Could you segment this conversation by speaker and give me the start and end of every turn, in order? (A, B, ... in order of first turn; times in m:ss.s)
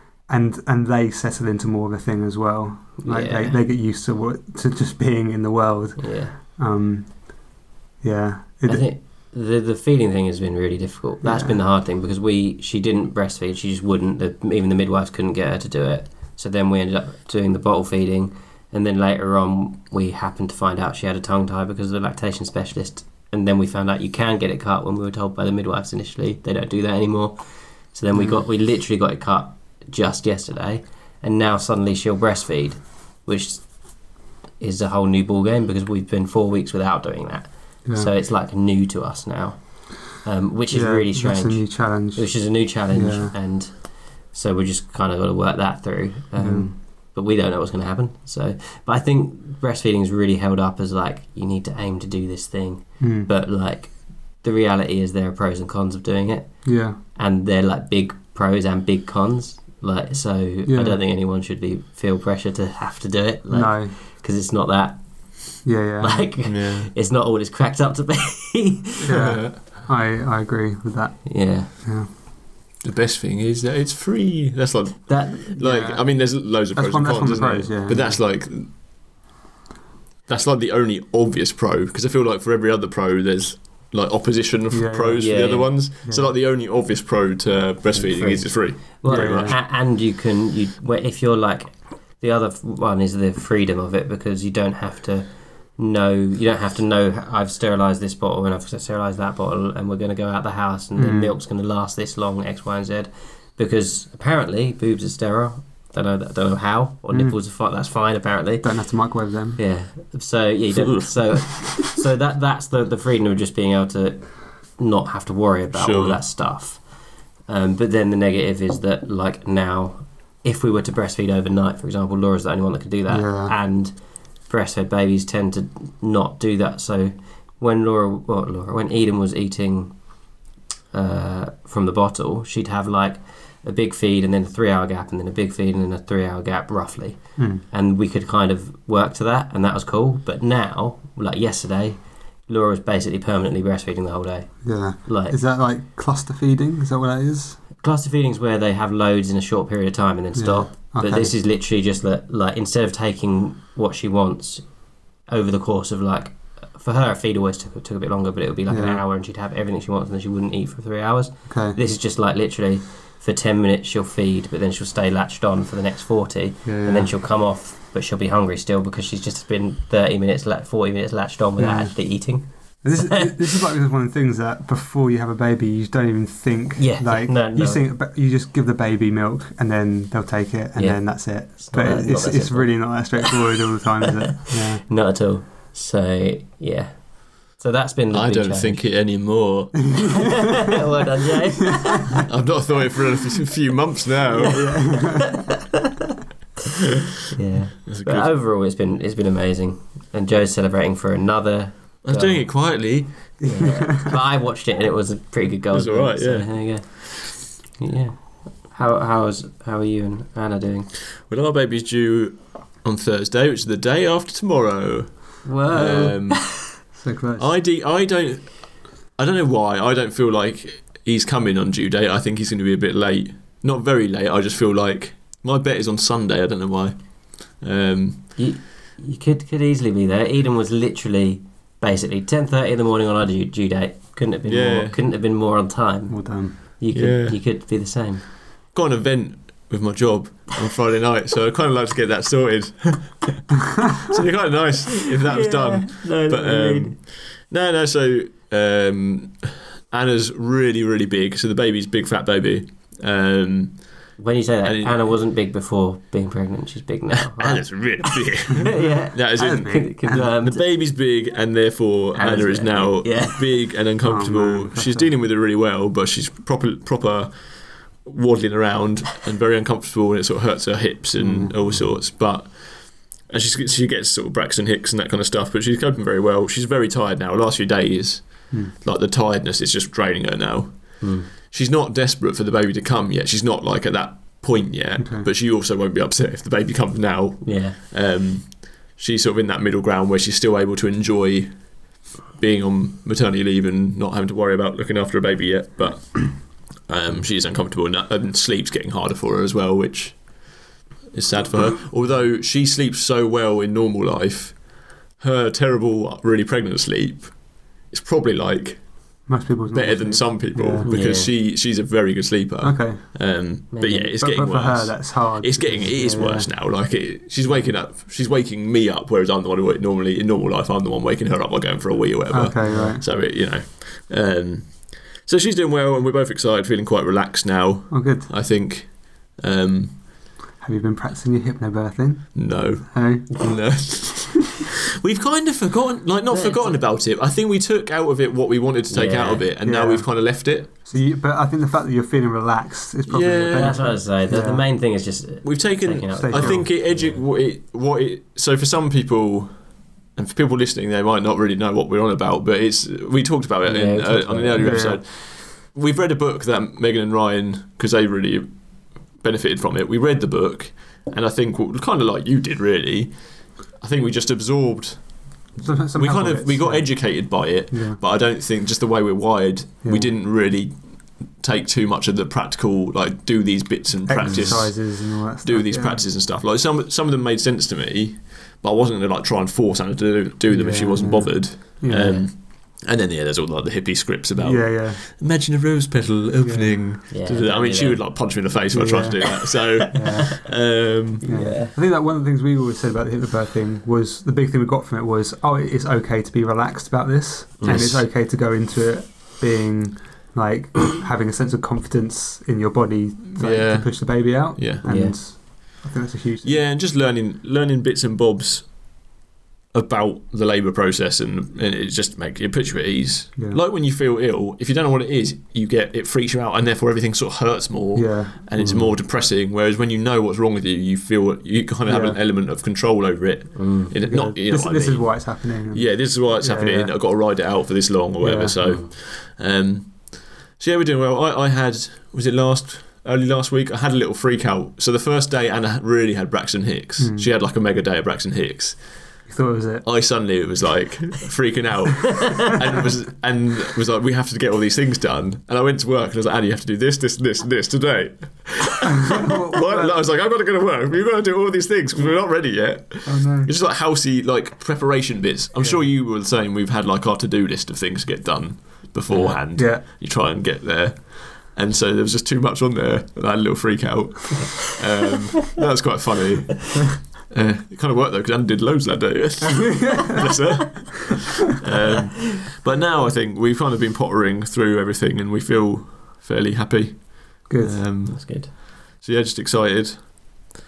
0:00.3-0:07.3 A
0:03.0-0:03.6 B
0:06.0-0:06.4 B
0:08.0-0:08.9 A
0:08.6-0:27.4 B
0:11.2-0:11.6 A
0:27.9-0:33.7 B
0:28.1-0:28.4 A
0:34.6-1:05.0 B
0:37.8-0:38.1 A
0:40.7-0:43.3 A
0:46.4-0:46.7 A
0:53.0-0:53.3 A
0:56.6-0:57.0 A
1:00.7-1:01.0 A
1:03.5-1:03.9 A
1:05.6-1:06.3 A
1:06.0-1:09.3 B
1:06.4-1:06.9 C
1:09.0-1:12.1 A
1:09.2-1:09.6 C
1:11.3-1:11.7 B
1:12.8-1:18.7 C
1:15.1-1:16.0 B
1:15.6-1:16.0 A
1:16.7-1:18.1 A
1:20.3-1:29.6 C
1:24.7-1:25.4 A
1:25.2-1:25.7 B
1:26.1-1:26.3 A
1:27.9-1:48.7 B
1:29.1-1:29.6 A
1:41.0-1:41.3 A
1:47.1-1:47.4 A
1:48.6-1:49.6 A
1:49.6-1:56.8 B
1:50.8-1:51.8 C
1:55.7-1:56.2 C
1:57.5-2:03.9 B
2:03.1-2:03.6 A
2:04.5-2:10.0 B
2:10.9-2:25.4 B
2:17.4-2:17.6 A
2:24.6-2:27.6 A
2:27.8-2:34.7 B
2:30.4-2:31.3 A
2:35.3-2:53.5 B
2:38.7-2:39.0 A
2:41.5-2:41.8 A
2:46.7-2:47.1 A
2:51.6-2:52.0 A
2:52.8-3:04.8 A
2:56.8-2:57.8 B
3:00.8-3:03.4 B
3:04.3-3:09.0 B
3:08.1-3:10.3 C
3:10.0-3:10.2 A
3:10.0-3:12.3 B
3:12.2-3:15.0 C
3:14.4-3:15.8 B
3:14.5-3:15.5 A
3:17.3-3:22.5 B
3:17.9-3:18.3 C
3:22.0-3:23.4 C
3:23.4-3:24.2 A
3:23.4-3:30.9 B
3:25.7-3:27.0 C
3:31.2-3:36.8 C
3:35.4-3:36.7 B
3:37.0-3:37.5 A
3:37.4-3:48.3 C
3:48.4-3:58.2 B
3:54.5-3:55.0 C
3:56.1-3:56.6 A
3:56.9-3:57.4 C
3:58.7-4:15.2 C
4:05.1-4:07.0 B
4:14.2-4:20.6 B
4:17.3-4:51.8 C
4:18.6-4:20.3 A
4:22.2-4:23.4 B
4:24.0-4:25.1 A
4:31.2-4:31.9 A
4:41.0-4:41.3 B
4:45.0-4:45.3 A
4:47.4-4:47.8 B
4:52.3-5:30.0 C
5:09.3-5:10.9 A
5:10.8-5:11.3 B
5:12.6-5:13.0 A
5:13.7-5:14.2 B
5:14.2-5:16.5 A
5:22.3-5:23.0 A
5:22.6-5:23.2 B
5:27.9-5:28.3 A
5:30.6-5:33.8 A
5:32.4-5:40.8 C
5:36.3-5:36.8 B
5:38.9-5:39.5 B
5:39.6-5:44.7 A
5:43.1-5:44.0 C
5:43.5-5:47.2 B
5:45.4-5:58.6 C
5:46.2-5:46.7 A
5:53.6-5:54.9 B
5:54.6-5:55.0 A
5:59.1-6:31.3 C
6:05.6-6:08.0 A
6:09.8-6:10.1 A
6:14.1-6:16.1 A
6:14.2-6:14.6 B
6:20.5-6:22.3 A
6:22.0-6:22.2 B
6:24.4-6:25.0 A
6:26.4-6:26.9 A
6:27.1-6:28.1 B
6:28.7-6:30.4 A
6:29.5-6:30.1 B
6:31.1-6:46.6 A
6:31.2-6:31.8 B
6:37.6-6:38.0 B
6:37.6-6:38.0 C
6:43.4-6:44.8 C
6:44.8-6:45.2 B
6:46.4-6:48.9 C
6:49.7-7:19.2 C
6:58.0-6:58.4 A
6:58.6-6:58.9 B
7:01.9-7:02.2 A
7:03.6-7:04.0 B
7:04.1-7:07.0 A
7:08.2-7:08.6 A
7:08.6-7:08.9 B
7:17.0-7:17.3 A
7:19.3-7:19.9 A
7:19.8-8:00.5 C
7:29.1-7:30.0 A
7:33.0-7:33.5 A
7:35.6-7:35.9 A
7:39.1-7:39.4 B
7:39.6-7:39.8 A
7:49.5-7:50.3 A
7:57.5-7:57.9 A
7:58.0-7:58.5 B